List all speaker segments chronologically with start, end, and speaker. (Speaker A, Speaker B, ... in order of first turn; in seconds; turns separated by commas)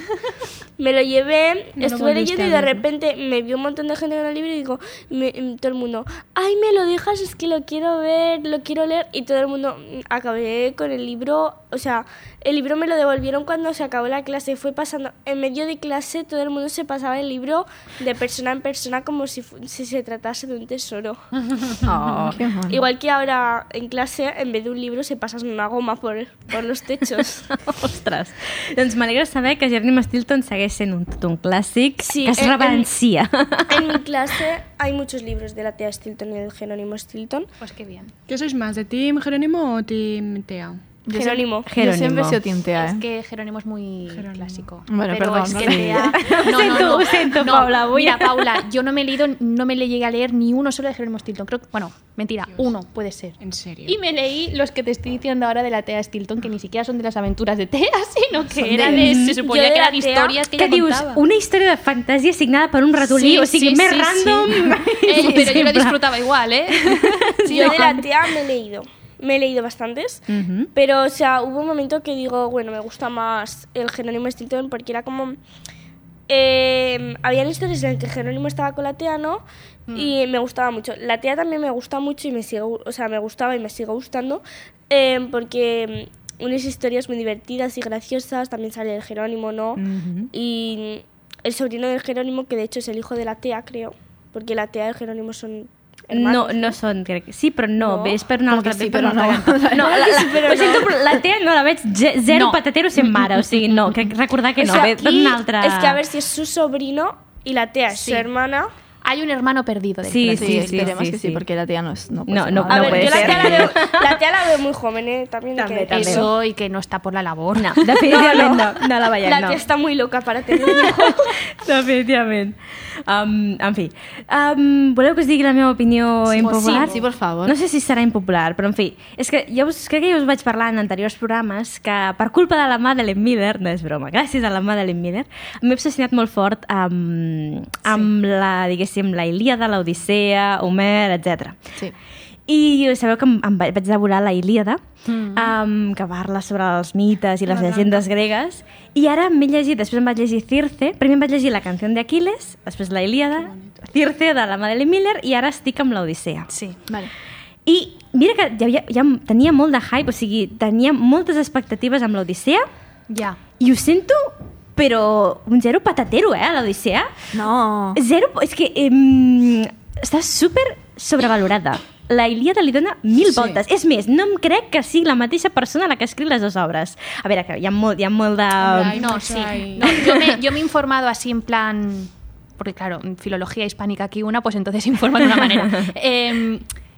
Speaker A: 0.8-21.2, Speaker B: 1.8-2.9, Speaker C: 21.8-22.8, Speaker D: 21.9-22.3, Speaker A: 22.6-27.6, Speaker D: 27.6-34.0, Speaker A: 32.0-32.9, Speaker A: 33.7-37.5, Speaker E: 37.6-38.1, Speaker B: 38.3-40.8, Speaker C: 41.0-43.0, Speaker A: 41.1-41.7, Speaker D: 41.7-42.4, Speaker E: 42.7-61.2, Speaker B: 44.1-44.6, Speaker C: 44.9-46.3, Speaker D: 45.6-48.5, Speaker B: 53.4-54.0, Speaker D: 58.6-59.4, Speaker A: 58.9-60.4, Speaker D: 60.5-66.0, Speaker E: 63.0-67.7, Speaker D: 66.7-68.0, Speaker A: 67.4-75.4, Speaker D: 70.3-70.7, Speaker A: 76.3-96.8, Speaker D: 89.9-90.3, Speaker D: 96.1-106.0, Speaker A: 97.8-98.2, Speaker C: 98.5-100.5, Speaker A: 99.8-100.9, Speaker E: 102.3-102.6, Speaker A: 104.6-108.7, Speaker E: 107.9-108.3, Speaker E: 109.0-111.0, Speaker D: 110.0-111.4, Speaker C: 110.3-113.7, Speaker D: 112.3-114.2, Speaker A: 112.7-116.3, Speaker D: 115.6-116.3, Speaker E: 115.9-118.0, Speaker D: 117.5-119.6, Speaker A: 118.0-121.4, Speaker D: 120.6-141.6, Speaker E: 126.3-127.0, Speaker C: 126.3-127.5, Speaker D: 142.5-144.8, Speaker E: 145.1-145.5, Speaker D: 145.3-156.5, Speaker B: 147.4-148.0, Speaker B: 153.3-153.8, Speaker E: 156.5-156.8, Speaker C: 156.9-157.1, Speaker D: 157.7-162.7, Speaker E: 163.1-163.4, Speaker D: 163.6-167.1, Speaker C: 167.3-168.0, Speaker D: 167.9-179.1, Speaker B: 178.6-180.0, Speaker E: 178.7-186.6, Speaker D: 185.6-185.9